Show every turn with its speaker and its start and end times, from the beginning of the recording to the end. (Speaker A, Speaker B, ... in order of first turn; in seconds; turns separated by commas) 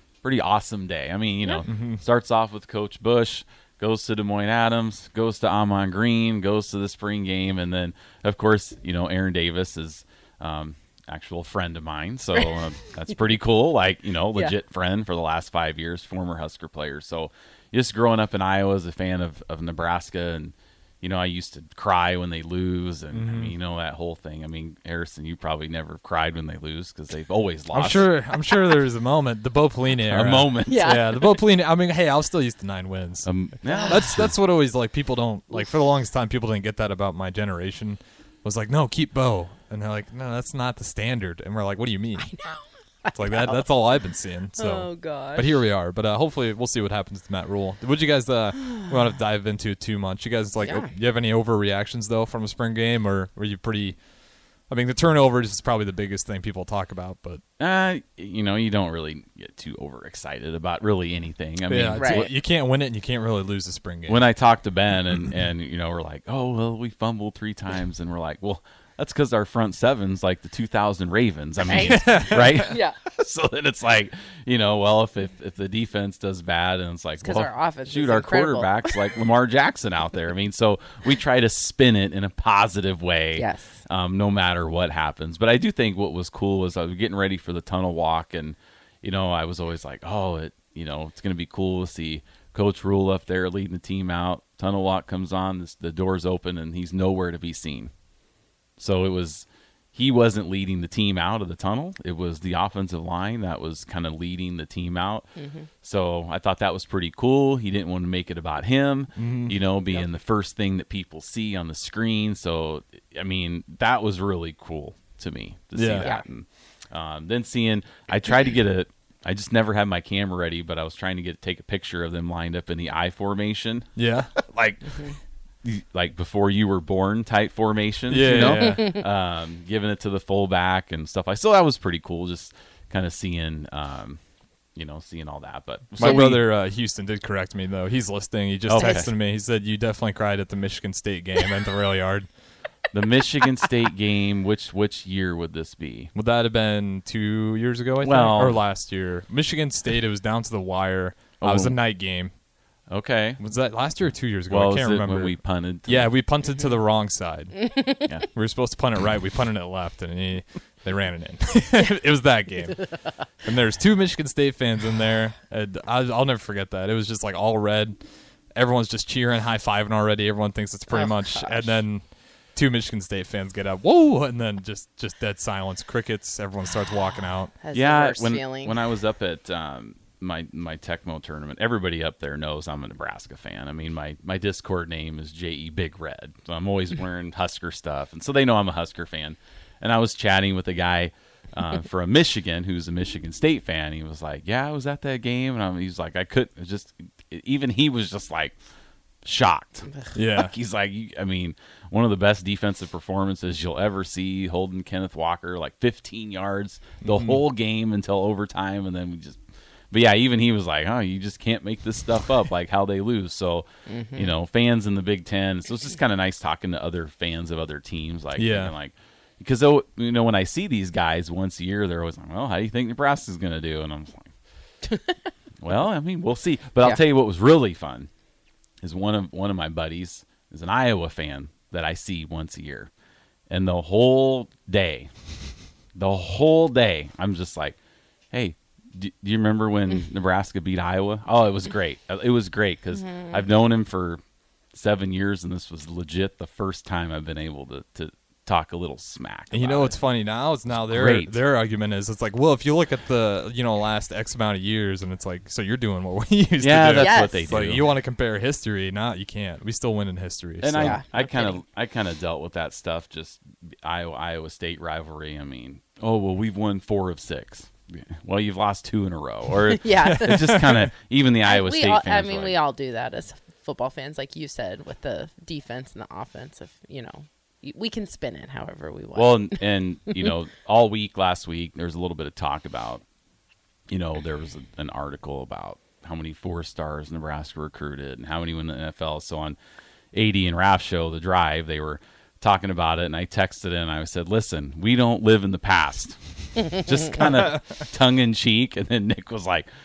Speaker A: 0.2-28.1, Speaker B: 1.7-2.0, Speaker B: 23.1-23.5, Speaker B: 27.7-33.3, Speaker A: 30.0-31.0, Speaker C: 30.7-31.3, Speaker A: 33.2-34.3, Speaker C: 33.6-34.0, Speaker B: 33.9-42.3, Speaker C: 42.2-43.6, Speaker B: 43.1-54.0, Speaker C: 44.5-45.6, Speaker C: 50.6-50.9, Speaker B: 54.7-57.4, Speaker A: 57.6-62.3, Speaker B: 61.7-64.2, Speaker C: 62.0-62.3, Speaker A: 64.1-97.9, Speaker C: 71.7-73.0, Speaker B: 71.7-72.6, Speaker C: 77.2-79.0, Speaker C: 83.3-83.8, Speaker A: 98.8-105.3, Speaker C: 105.4-105.7, Speaker A: 105.8-125.1, Speaker B: 109.2-109.6, Speaker B: 115.7-116.1, Speaker C: 116.0-116.2, Speaker B: 124.0-124.3, Speaker A: 125.6-134.2, Speaker B: 128.1-128.9, Speaker A: 134.8-136.4, Speaker B: 136.0-142.3, Speaker C: 136.0-136.3, Speaker A: 138.7-139.1, Speaker A: 142.9-146.1, Speaker B: 146.1-152.3, Speaker A: 148.0-148.6, Speaker A: 151.4-151.8, Speaker A: 152.9-153.4, Speaker B: 153.4-157.8, Speaker A: 154.5-156.1, Speaker B: 158.3-168.0, Speaker B: 168.5-172.0, Speaker C: 170.9-171.7, Speaker B: 172.5-177.5, Speaker C: 177.6-178.7, Speaker A: 177.7-198.5, Speaker A: 199.2-209.4, Speaker B: 200.1-200.5, Speaker B: 207.0-207.4, Speaker A: 209.9-224.3, Speaker C: 213.9-214.3, Speaker B: 218.3-218.7, Speaker C: 224.9-225.1, Speaker A: 225.6-228.1, Speaker A: 228.8-232.9, Speaker A: 233.5-235.1, Speaker A: 235.9-237.8, Speaker A: 238.3-244.2, Speaker C: 243.1-243.4, Speaker A: 244.7-250.0, Speaker B: 249.5-261.0, Speaker A: 250.8-251.3, Speaker A: 256.6-257.9, Speaker C: 257.0-257.4, Speaker A: 260.6-272.6, Speaker C: 260.8-261.6, Speaker C: 269.7-270.7, Speaker B: 270.1-270.9, Speaker C: 271.4-280.3, Speaker A: 279.1-283.0, Speaker A: 283.9-289.6, Speaker A: 290.1-299.7